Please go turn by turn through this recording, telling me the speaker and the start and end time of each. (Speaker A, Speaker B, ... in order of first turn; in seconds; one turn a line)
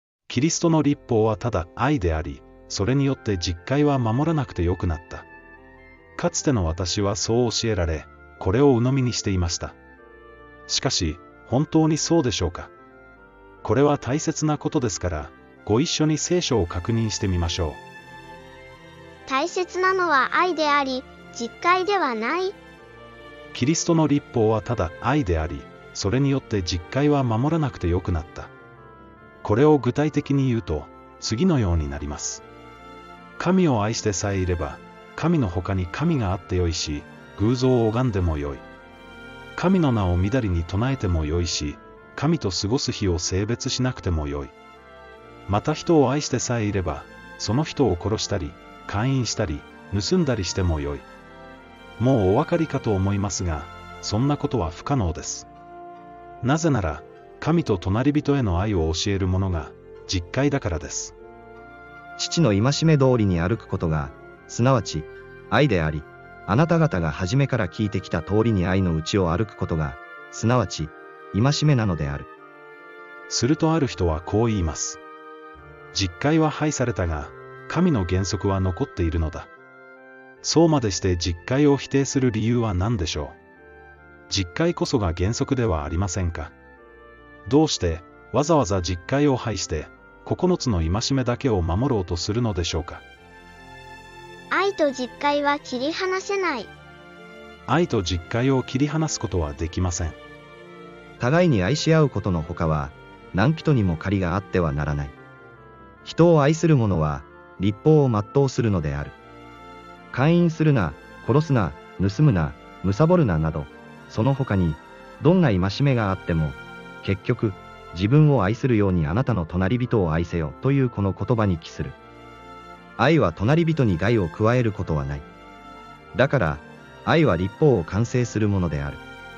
Speaker A: 0.3-5.3
Speaker A: 6.2-9.8
Speaker A: 10.7-12.7
Speaker A: 13.6-17.8
Speaker B: 19.3-22.6
Speaker A: 23.5-28.5
Speaker A: 29.4-32.4
Speaker A: 33.4-38.6
Speaker A: 39.6-44.5
Speaker A: 45.5-51.1
Speaker A: 52.0-55.5
Speaker A: 56.4-61.1
Speaker C: 62.2-72.3
Speaker A: 73.3-75.0
Speaker A: 75.9-79.5
Speaker A: 80.4-83.4
Speaker A: 84.3-86.5
Speaker A: 87.5-93.0
Speaker B: 94.5-96.7
Speaker A: 97.7-100.2
Speaker C: 101.2-105.2
Speaker C: 106.0-109.2
Speaker C: 110.1-122.0
Speaker C: 123.0-125.2
Speaker C: 126.1-129.0